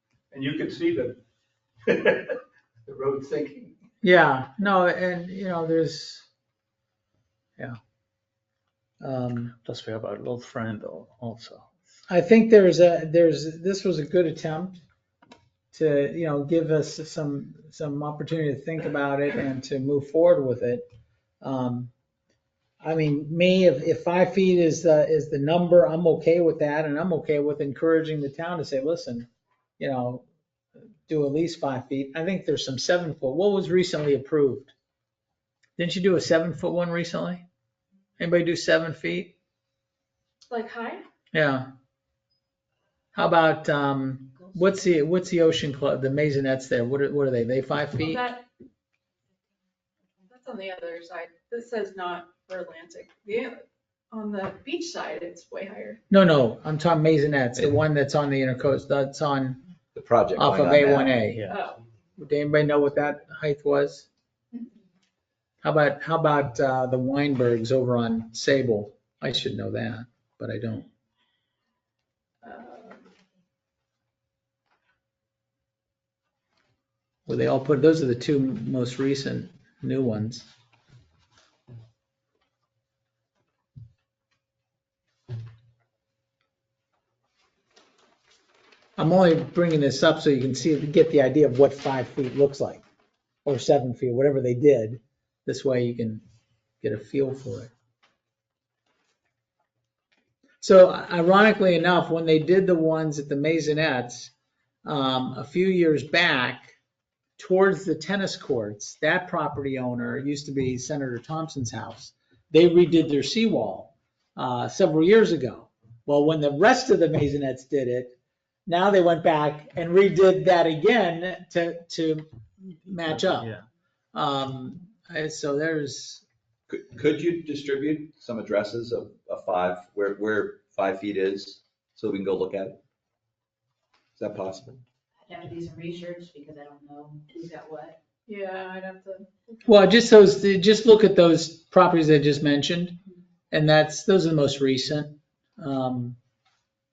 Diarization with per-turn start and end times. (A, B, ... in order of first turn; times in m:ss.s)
0:00.3-0:01.2 A
0:01.9-0:02.3 A
0:02.8-0:03.7 A
0:04.0-0:06.2 B
0:09.0-0:09.5 B
0:09.6-0:11.7 C
0:12.1-0:14.8 B
0:15.7-0:20.8 B
0:21.4-0:21.9 B
0:22.8-0:29.3 B
0:29.8-0:30.2 B
0:31.0-0:34.7 B
0:35.8-0:37.4 B
0:38.2-0:39.3 B
0:40.5-0:41.0 D
0:41.3-0:41.7 B
0:43.1-0:48.2 B
0:48.0-0:48.4 D
0:50.2-0:56.0 D
0:56.1-0:59.6 B
0:59.9-1:01.2 E
1:00.4-1:01.4 B
1:01.3-1:01.6 C
1:01.5-1:01.8 D
1:02.2-1:04.1 B
1:05.6-1:10.9 B
1:12.4-1:13.0 D
1:17.3-1:20.5 B
1:29.0-1:32.8 B
1:33.4-1:36.2 B
1:36.8-1:37.7 B
1:40.6-1:44.3 B
1:44.8-1:46.8 B
1:47.4-1:58.2 B
1:58.7-2:03.5 B
2:03.1-2:03.6 C
2:04.1-2:06.2 B
2:06.7-2:12.8 E
2:14.2-2:14.8 E
2:15.2-2:18.0 F
2:18.3-2:19.6 D
2:19.6-2:23.0 B
2:23.5-2:26.2 B